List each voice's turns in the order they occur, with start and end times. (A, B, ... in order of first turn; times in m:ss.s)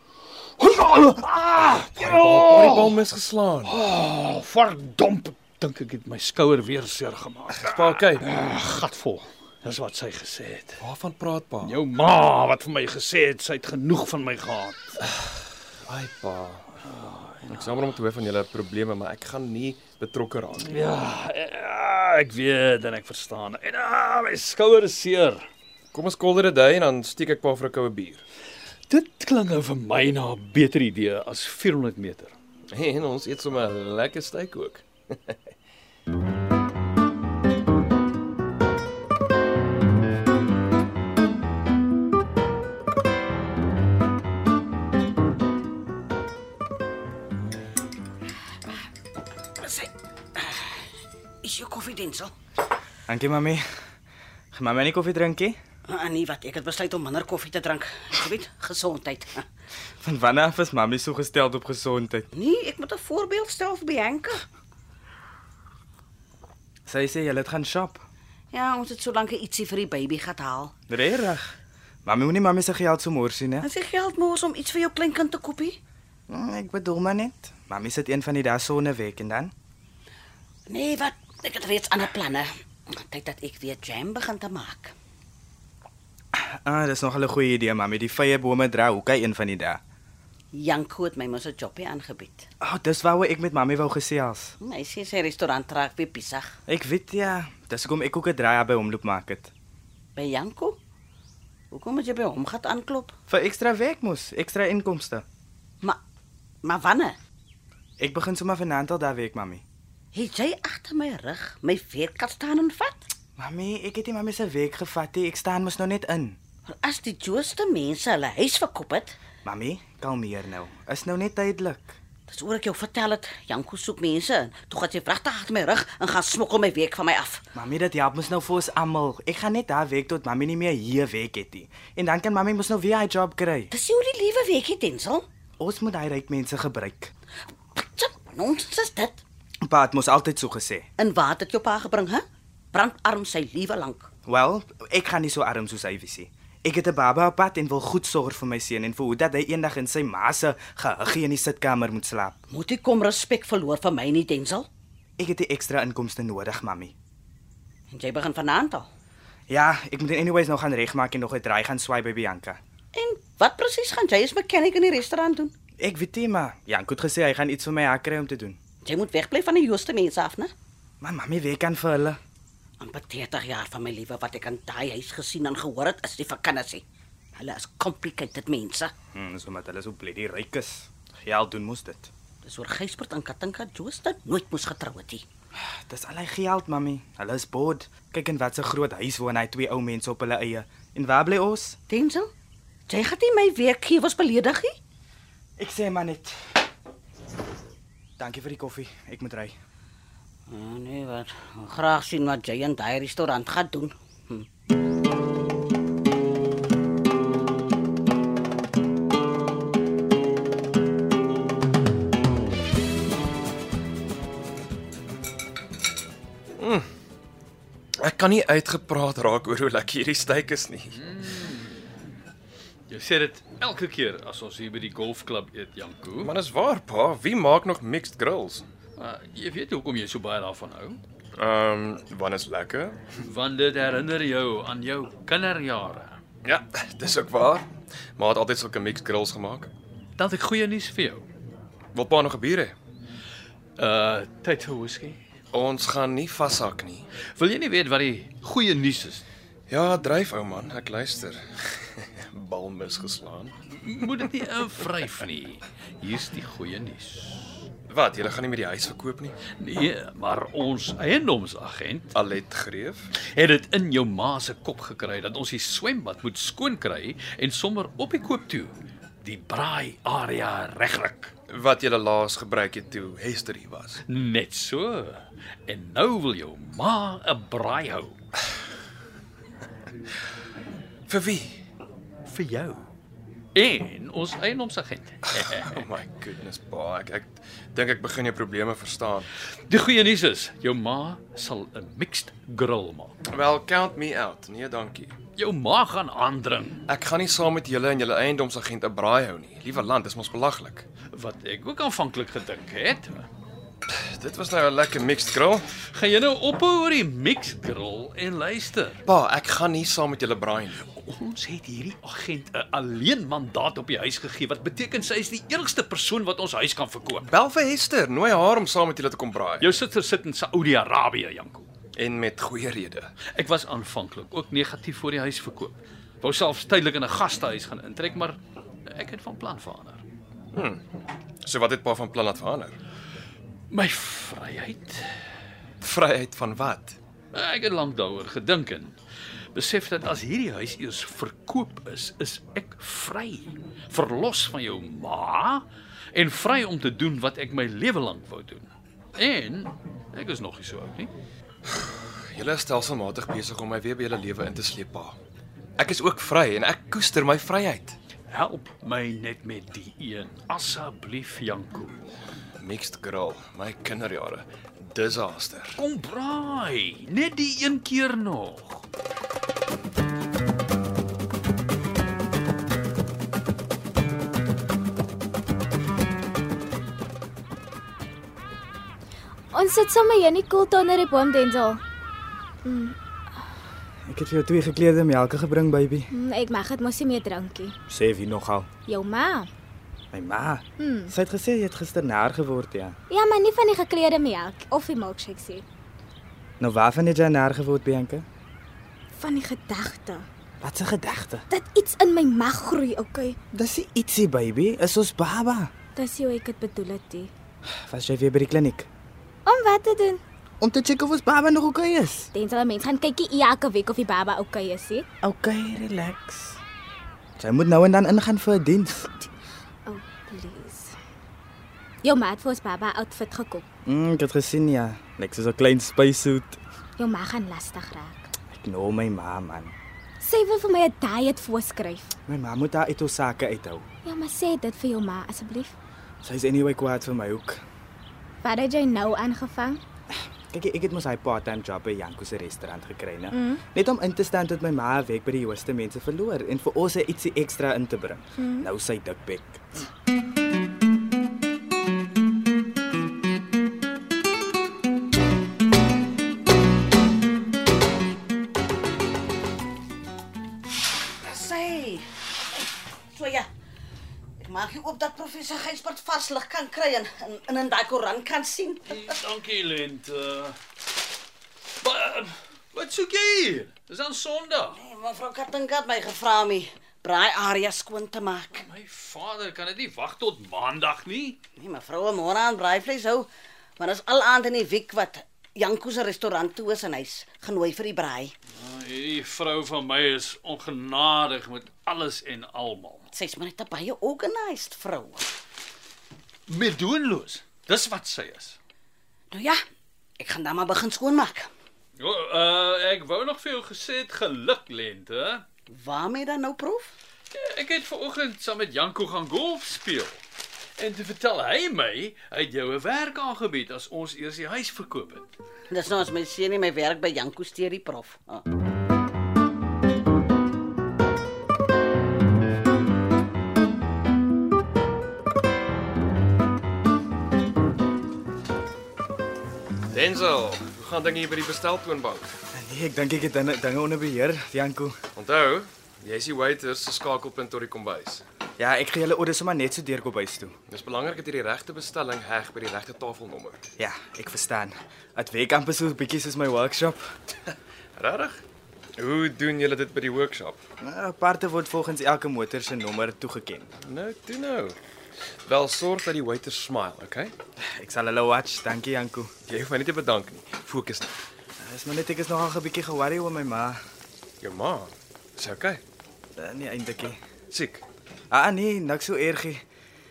0:00.6-0:03.0 A
0:01.7-0:03.7 B
0:03.6-0:10.8 A
0:07.6-0:08.2 B
0:10.8-0:11.8 B
0:11.6-0:15.0 A
0:15.8-0:16.7 B
0:16.8-0:17.6 A
0:17.5-0:20.8 B
0:20.6-0:25.4 A
0:25.9-0:28.2 B
0:28.9-0:32.3 A
0:32.7-0:35.4 B
0:49.6-0:50.9 C
0:51.4-0:52.3 C
0:53.1-0:53.6 D
0:54.5-0:55.6 D
0:55.9-0:59.5 C
1:00.0-1:02.3 D
1:02.3-1:04.4 C
1:06.9-1:08.0 D
1:08.5-1:10.7 C
1:10.9-1:11.5 D
1:12.0-1:13.6 D
1:13.6-1:15.8 C
1:16.3-1:19.5 D
1:20.7-1:24.9 C
1:26.3-1:29.8 D
1:30.5-1:32.5 C
1:32.6-1:34.5 D
1:34.6-1:36.6 C
1:36.7-1:39.5 D
1:40.2-1:40.8 C
1:41.7-1:43.1 C
1:43.3-1:45.2 D
1:46.6-1:47.2 C
1:48.0-1:49.6 D
1:50.1-1:53.1 C
1:53.4-1:56.4 D
1:56.7-1:59.2 C
1:59.4-2:02.0 D
2:02.3-2:07.4 C
2:07.6-2:13.7 D
2:13.7-2:15.3 C
2:15.6-2:17.1 D
2:17.7-2:19.2 C
2:19.6-2:20.9 D
2:21.0-2:24.1 C
2:24.3-2:32.4 D
2:32.5-2:34.7 C
2:35.2-2:36.9 D
2:37.9-2:38.9 C
2:39.5-2:42.6 D
2:42.9-2:45.5 C
2:45.8-2:48.6 D
2:48.8-2:50.5 C
2:51.0-2:52.2 D
2:52.8-2:58.9 C
2:59.1-3:02.1 D
3:02.4-3:05.2 C
3:05.6-3:11.8 D
3:11.9-3:12.3 C
3:12.9-3:14.8 C
3:15.6-3:16.3 D
3:18.2-3:19.5 D
3:20.5-3:24.5 C
3:36.6-3:36.8 B
3:38.0-3:41.0 B
3:41.0-3:42.0 A
3:42.9-3:46.3 A
3:46.2-3:48.6 B
3:49.0-3:51.0 A
3:51.4-3:53.0 B
3:53.2-3:56.2 A
3:56.4-3:59.7 B
4:00.2-4:01.2 A
4:01.9-4:02.8 B
4:03.8-4:05.2 A
4:05.5-4:07.1 B
4:07.3-4:09.2 A
4:09.7-4:13.5 B
4:13.7-4:17.6 A
4:17.9-4:19.4 B
4:19.6-4:22.1 A
4:22.1-4:23.1 B
4:23.3-4:31.3 A
4:31.5-4:34.0 B
4:34.1-4:38.2 A
4:41.1-4:41.6 B
4:42.3-4:42.8 A
4:43.5-4:45.9 A
4:45.3-4:49.3 B
4:49.7-4:53.1 A
4:53.3-4:55.1 B
4:55.4-4:56.8 A
4:56.9-5:00.9 B
5:01.1-5:03.3 A
5:03.9-5:05.7 B
5:05.8-5:09.0 A
5:09.0-5:10.8 B
5:10.9-5:17.3 A
5:17.3-5:19.8 B
5:19.6-5:21.7 A
5:22.0-5:23.1 B
5:23.3-5:30.0 A
5:30.5-5:30.8 B
5:31.4-5:32.8 B
5:33.7-5:35.0 A
5:35.8-5:37.0 B
5:37.3-5:39.0 A
5:39.5-5:51.1 A
5:51.7-5:55.2 B
5:55.8-5:58.0 B
5:58.3-6:02.0 A
6:02.6-6:05.8 B
6:05.8-6:08.8 A
6:19.5-6:21.8 E
6:22.6-6:22.9 E
6:24.1-6:26.1 D
6:26.1-6:27.7 E
6:27.9-6:28.7 D
6:28.9-6:29.5 E
6:30.1-6:33.0 D
6:30.8-6:31.1 E
6:33.1-6:35.6 E
6:36.6-6:38.2 D
6:39.2-6:40.3 E
6:40.6-6:41.4 D
6:41.5-6:43.4 E
6:43.5-6:45.7 D
6:46.0-6:47.3 E
6:47.9-6:48.9 D
6:49.4-6:50.2 E
6:50.6-6:52.3 D
6:52.3-6:55.0 E
6:55.2-6:56.6 D
6:57.4-6:59.1 D
6:59.8-7:00.9 E
7:02.0-7:03.6 E
7:03.8-7:06.6 D
7:07.0-7:08.3 E
7:08.5-7:09.7 D
7:10.2-7:12.1 E
7:12.3-7:13.8 D
7:14.0-7:15.7 E
7:16.2-7:17.6 D
7:18.4-7:19.8 E
7:20.5-7:29.6 D
7:23.3-7:23.6 E
7:28.4-7:28.7 E
7:41.2-7:43.5 C
7:44.4-7:49.1 C
7:48.9-7:50.6 A
7:51.8-7:54.8 A
7:54.7-7:58.6 C
7:58.6-8:01.4 A
8:01.6-8:08.3 C
8:08.6-8:13.1 A
8:13.1-8:15.3 C
8:16.5-8:18.6 A
8:19.3-8:19.6 C
8:20.2-8:21.5 C
8:22.0-8:25.4 A
8:25.7-8:26.9 C
8:27.3-8:30.2 A
8:30.8-8:35.3 A
8:35.7-8:38.5 C
8:49.9-8:52.4 B
8:52.5-8:54.9 D
8:55.2-8:58.2 B
8:58.6-9:00.5 D
9:00.7-9:03.7 B
9:03.8-9:07.0 D
9:08.0-9:08.4 B
9:09.0-9:10.6 B
9:10.8-9:13.7 D
9:13.8-9:14.8 B
9:15.4-9:17.3 B
9:17.6-9:19.3 D
9:19.5-9:21.2 B
9:21.6-9:23.8 D
9:24.4-9:25.8 B
9:26.4-9:27.2 D
9:27.5-9:27.8 B
9:28.3-9:29.6 D